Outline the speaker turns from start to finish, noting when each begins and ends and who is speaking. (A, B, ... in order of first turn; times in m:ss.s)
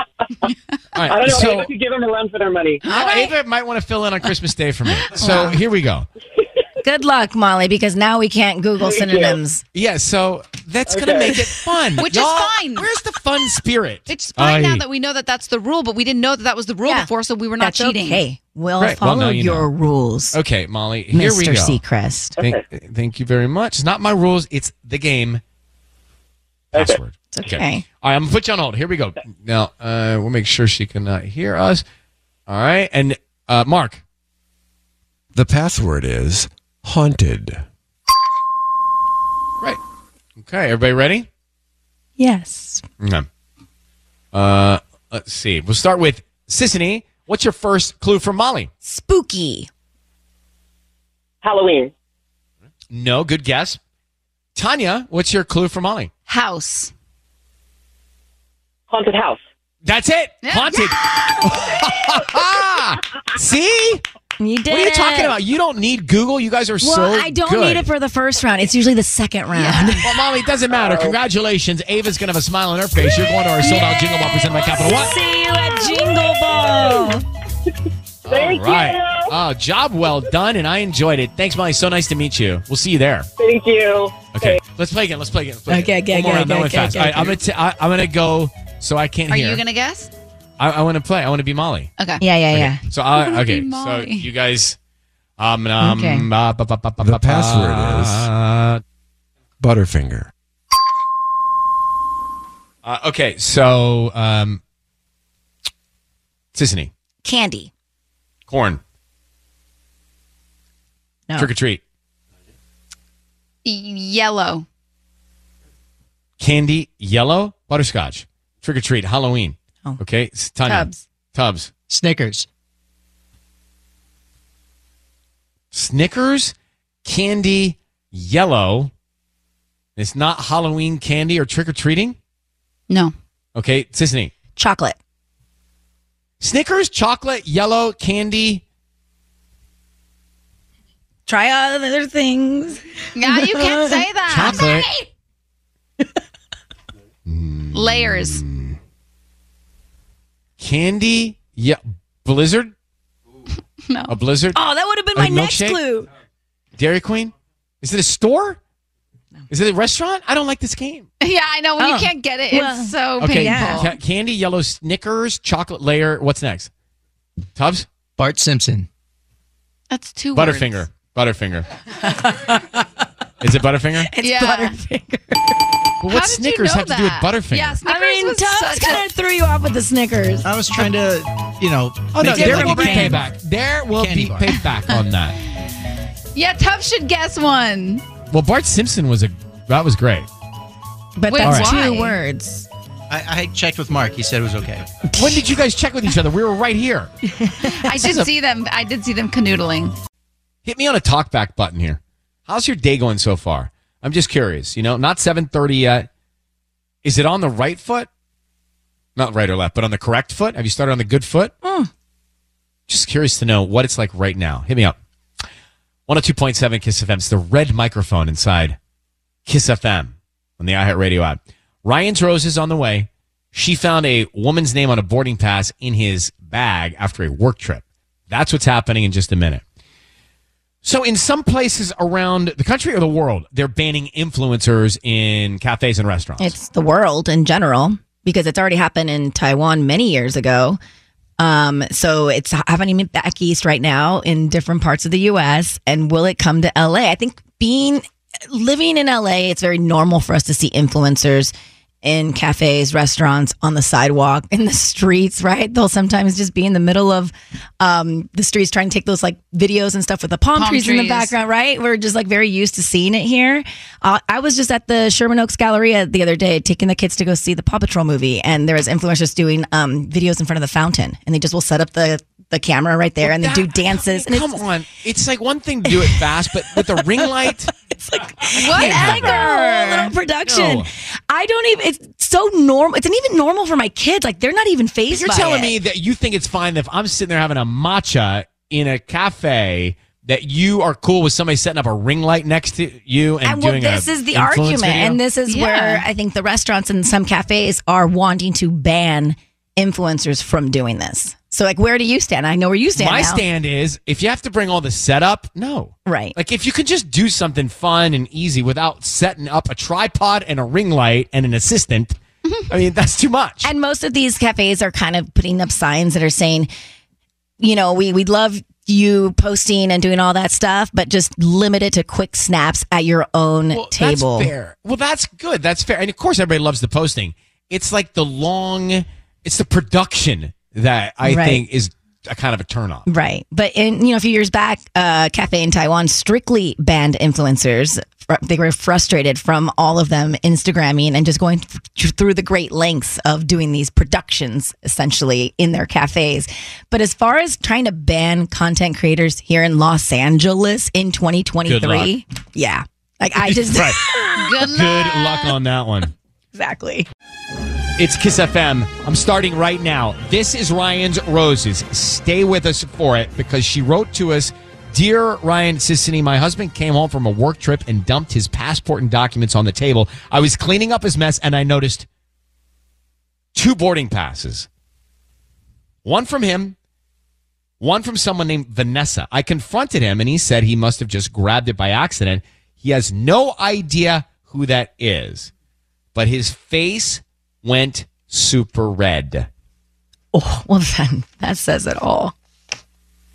0:00.9-0:01.7 A
0:01.0-0:02.8 B
0:02.8-0:03.3 C
0:02.9-0:06.1 A
0:02.9-0:03.3 D
0:05.2-0:05.6 D
0:06.8-0:09.6 D
0:08.8-0:09.4 B
0:09.7-0:14.8 A
0:10.9-0:11.4 B
0:12.0-0:12.9 C
0:14.1-0:18.2 C
0:16.9-0:20.4 D
0:18.8-0:19.7 A
0:20.3-0:21.8 A
0:21.1-0:22.4 D
0:22.4-0:25.4 A
0:26.7-0:31.8 A
0:27.3-0:27.8 D
0:32.5-0:34.0 A
0:35.3-0:37.6 E
0:40.4-0:41.3 A
0:42.2-0:42.8 D
0:43.0-0:43.3 A
0:44.3-0:48.7 A
0:48.8-0:49.7 D
0:51.4-0:51.9 B
0:52.9-0:53.8 A
0:54.5-0:56.1 A
0:56.3-0:56.9 C
0:58.9-0:59.4 B
0:59.8-1:04.0 A
1:00.4-1:00.9 C
1:04.4-1:05.3 D
1:04.7-1:07.9 A
1:06.8-1:10.0 D
1:09.5-1:10.0 C
1:10.0-1:15.1 A
1:10.8-1:11.1 B
1:13.6-1:14.9 C
1:14.8-1:17.2 D
1:18.2-1:23.3 A
1:18.3-1:19.3 B
1:23.4-1:24.6 B
1:24.3-1:29.6 A
1:25.7-1:27.4 D
1:29.3-1:30.1 C
1:30.6-1:31.9 A
1:32.2-1:32.8 D
1:32.5-1:34.8 A
1:33.1-1:34.3 C
1:35.4-1:38.8 A
1:35.8-1:36.3 D
1:37.0-1:38.3 E
1:39.6-1:40.3 E
1:42.8-1:44.6 A
1:46.5-1:46.9 A
1:47.2-1:47.7 D
1:48.5-1:48.8 A
1:51.4-1:51.8 A
1:53.6-1:54.6 C
1:56.4-2:01.7 A
2:00.6-2:01.0 D
2:01.9-2:02.4 F
2:05.7-2:08.9 A
2:10.0-2:12.2 A
2:13.5-2:14.3 A
2:14.6-2:15.0 D
2:16.4-2:18.6 A
2:21.3-2:24.0 D
2:23.1-2:24.7 C
2:24.3-2:24.9 A
2:24.5-2:25.0 D
2:27.2-2:28.8 A
2:27.7-2:28.4 C
2:30.6-2:32.7 A
2:33.9-2:34.2 C
2:34.1-2:34.6 A
2:34.5-2:36.1 D
2:35.1-2:35.8 A
2:36.8-2:38.6 A
2:39.5-2:41.1 A
2:41.2-2:43.9 C
2:41.8-2:43.9 D
2:43.2-2:46.7 A
2:47.6-2:47.9 A
2:48.2-2:48.9 F
2:49.9-2:50.8 C
2:50.3-2:51.7 A
2:53.4-2:54.1 A
2:54.0-2:55.6 D
2:54.2-2:54.7 C
2:56.0-2:57.8 A
2:56.1-2:59.1 C
2:57.8-3:00.9 D
3:00.4-3:03.3 F
3:02.1-3:05.4 A
3:02.2-3:03.2 D
3:03.9-3:04.5 F
3:06.3-3:08.0 C
3:08.3-3:10.3 A
3:11.2-3:12.7 D
3:11.3-3:12.2 C
3:11.4-3:11.7 A
3:13.1-3:15.0 F
3:15.2-3:17.1 A
3:17.4-3:18.2 D
3:17.6-3:19.9 C
3:20.6-3:26.1 A
3:27.0-3:28.1 A
3:29.2-3:31.5 A
3:31.6-3:31.9 D
3:32.9-3:35.0 A
3:36.1-3:38.8 A
3:39.4-3:49.6 A
3:50.8-3:56.5 A
3:56.4-4:00.8 D
4:01.4-4:34.6 D
4:20.5-4:21.3 C
4:33.2-4:37.7 A
4:36.0-4:36.2 D
4:36.7-4:37.2 D
4:37.8-4:45.7 D
4:38.5-4:39.5 A
4:38.6-4:40.1 C
4:40.4-4:40.9 A
4:45.1-4:55.2 A
4:53.4-5:03.4 D
4:55.5-4:56.0 C
5:03.0-5:12.2 A
5:06.0-5:06.4 D
5:12.7-5:13.7 A
5:13.6-5:16.7 D
5:17.6-5:24.5 D
5:23.7-5:33.0 A
5:31.2-5:31.6 D
5:33.1-5:54.4 D
5:51.6-5:52.1 A
5:53.4-5:54.0 A
5:54.4-5:55.6 C
5:54.6-5:56.1 A
5:56.5-5:57.1 D
5:58.0-6:12.0 A
6:13.5-6:14.7 A
6:16.0-6:16.8 A
6:17.8-6:25.5 A
6:26.1-6:29.5 A
6:30.3-6:32.3 D